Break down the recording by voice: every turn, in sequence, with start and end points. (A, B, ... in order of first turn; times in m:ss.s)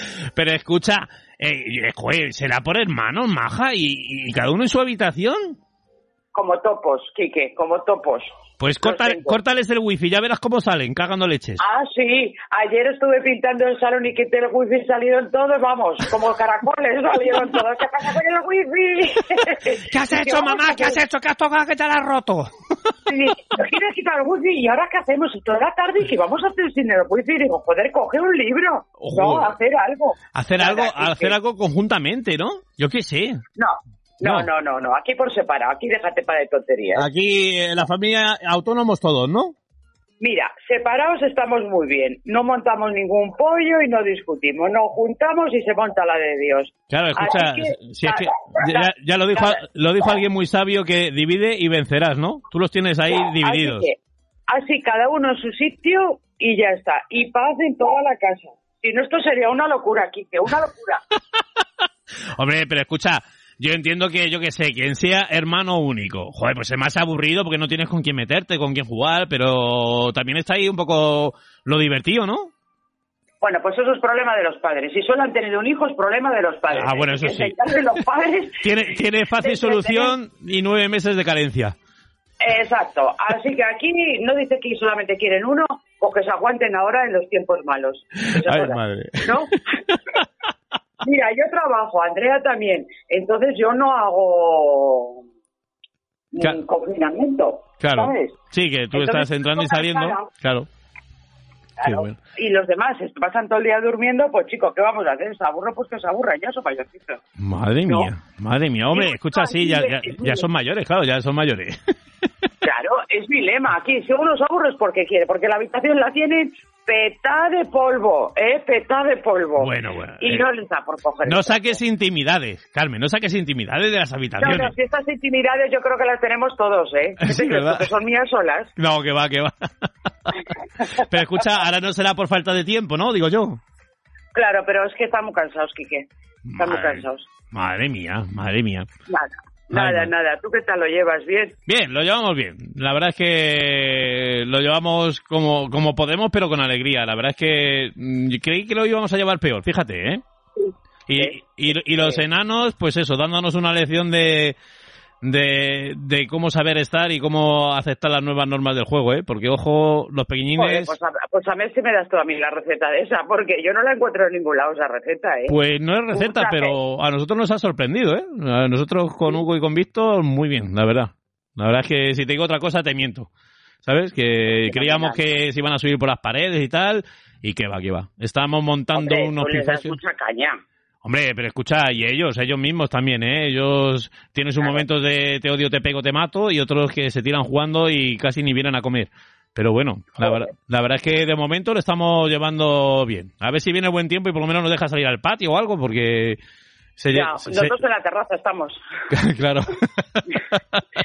0:00.4-0:05.6 A
0:06.3-0:09.4 B
0:08.6-0:11.6 A
0:11.6-0:21.0 B
0:19.9-0:22.5 A
0:23.1-0:31.4 B
0:29.0-0:29.6 A
0:30.4-0:33.4 A
0:33.6-0:37.1 B
0:37.0-0:39.5 A
0:40.2-0:49.6 B
0:46.9-0:53.9 A
0:53.2-0:54.0 B
0:54.5-1:01.0 B
1:02.4-1:12.5 A
1:13.4-1:18.7 B
1:16.7-1:17.6 A
1:18.6-1:21.8 A
1:19.4-1:20.1 B
1:22.4-1:29.9 B
1:28.3-1:29.6 A
1:31.0-1:35.2 B
1:36.3-1:38.4 B
1:37.8-1:40.7 A
1:38.9-1:40.3 B
1:41.8-1:47.2 B
1:41.8-1:42.2 A
1:47.4-1:51.8 A
1:48.9-1:50.4 B
1:52.6-2:01.8 B
1:59.6-2:00.4 A
2:01.3-2:04.7 A
2:04.4-2:08.7 B
2:07.2-2:07.9 A
2:08.8-2:09.7 A
2:10.2-2:13.6 A
2:14.3-2:17.3 B
2:16.5-2:18.9 A
2:19.1-2:21.6 B
2:19.7-2:20.1 A
2:21.7-2:30.2 A
2:31.1-2:34.6 A
2:31.9-2:32.2 B
2:35.2-2:40.9 A
2:40.6-2:45.6 B
2:45.5-2:53.3 A
2:46.1-2:46.8 B
2:53.8-3:00.0 A
2:54.7-2:55.2 B
2:59.0-3:00.6 B
3:01.0-3:16.4 A
3:17.0-3:17.8 A
3:17.1-3:18.8 B
3:19.1-3:20.8 A